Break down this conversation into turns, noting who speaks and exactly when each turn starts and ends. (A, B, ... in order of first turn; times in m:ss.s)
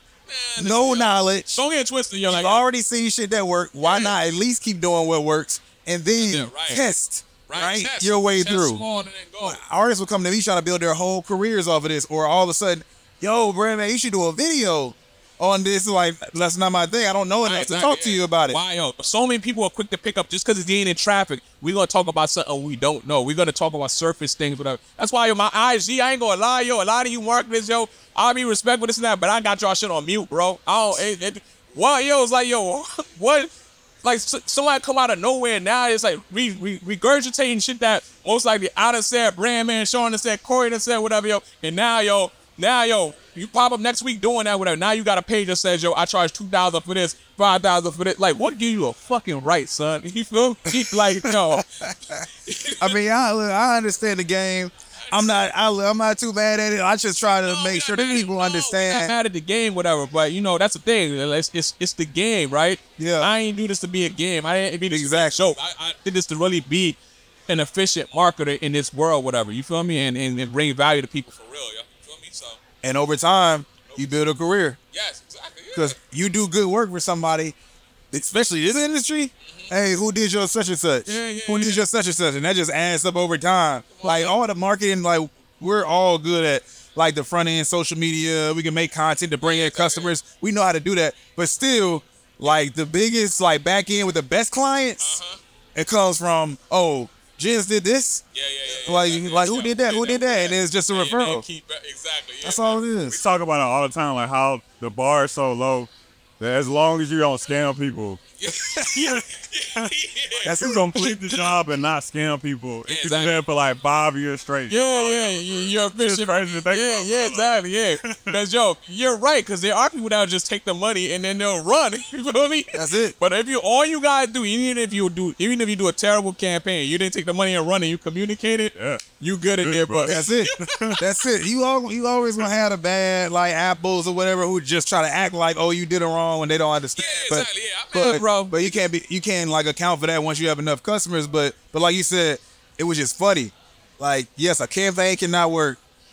0:00.3-0:02.6 A
0:00.6-0:01.6 B
0:02.3-0:08.8 B
0:03.8-0:04.1 A
0:06.2-0:06.8 A
0:07.5-0:09.6 A
0:09.4-0:18.6 B
0:17.4-0:51.6 A
0:50.8-0:52.3 B
0:52.4-0:53.0 A
0:52.8-0:59.1 B
0:55.1-0:55.4 A
0:57.4-1:12.6 A
1:03.0-1:03.3 B
1:04.9-1:05.6 B
1:12.8-1:14.8 B
1:13.9-1:14.1 A
1:14.9-1:16.0 A
1:15.7-1:17.6 B
1:18.1-1:35.2 B
1:19.4-1:19.7 A
1:21.1-1:21.8 A
1:23.9-1:24.3 A
1:29.4-1:30.1 A
1:35.0-1:35.4 A
1:35.7-1:41.4 B
1:38.3-1:42.8 A
1:42.4-1:43.2 B
1:43.1-1:49.1 C
1:48.4-1:50.6 A
1:50.4-1:57.5 C
1:50.4-1:51.4 B
1:52.9-1:53.4 A
1:54.7-2:10.9 A
1:58.0-1:58.3 C
2:02.7-2:03.1 B
2:08.7-2:09.0 C
2:09.6-2:11.0 C
2:10.1-2:25.8 B
2:17.0-2:18.7 A